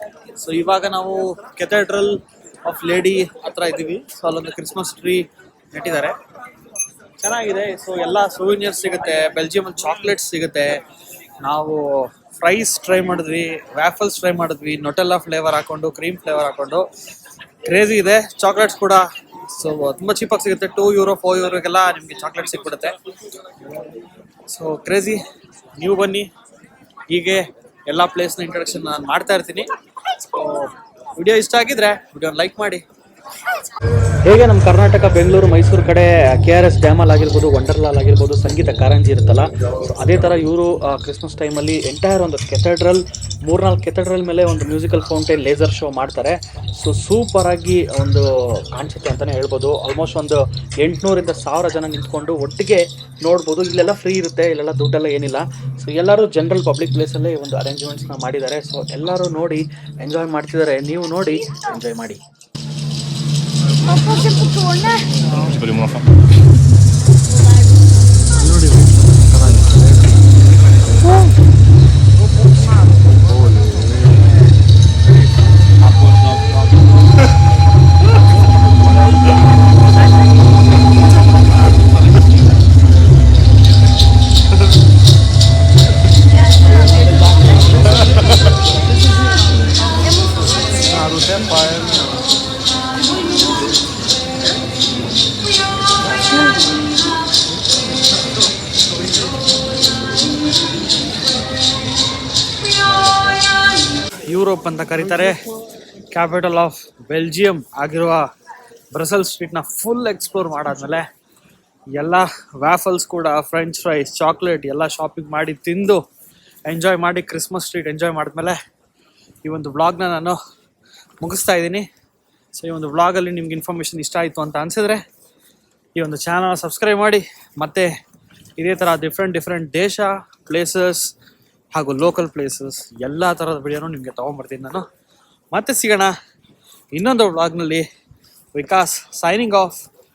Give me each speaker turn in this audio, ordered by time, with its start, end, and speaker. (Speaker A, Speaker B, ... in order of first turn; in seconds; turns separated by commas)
Speaker A: 0.3-6.2, Speaker A: 7.2-10.8, Speaker A: 11.4-16.9, Speaker A: 17.6-23.0, Speaker A: 24.5-25.2, Speaker A: 25.8-26.3, Speaker A: 27.1-32.8, Speaker B: 34.2-62.2, Speaker C: 65.5-66.0, Speaker A: 68.4-69.8, Speaker C: 73.6-73.9, Speaker C: 90.8-92.1, Speaker A: 104.2-105.5, Speaker A: 106.1-108.3, Speaker A: 108.9-111.1, Speaker A: 111.9-116.0, Speaker A: 116.7-118.6, Speaker A: 119.4-120.4, Speaker A: 121.2-121.9, Speaker A: 122.5-125.0, Speaker A: 126.0-127.9, Speaker A: 128.6-131.1, Speaker A: 131.7-134.9, Speaker A: 135.5-136.1, Speaker A: 136.9-137.9, Speaker A: 138.6-139.8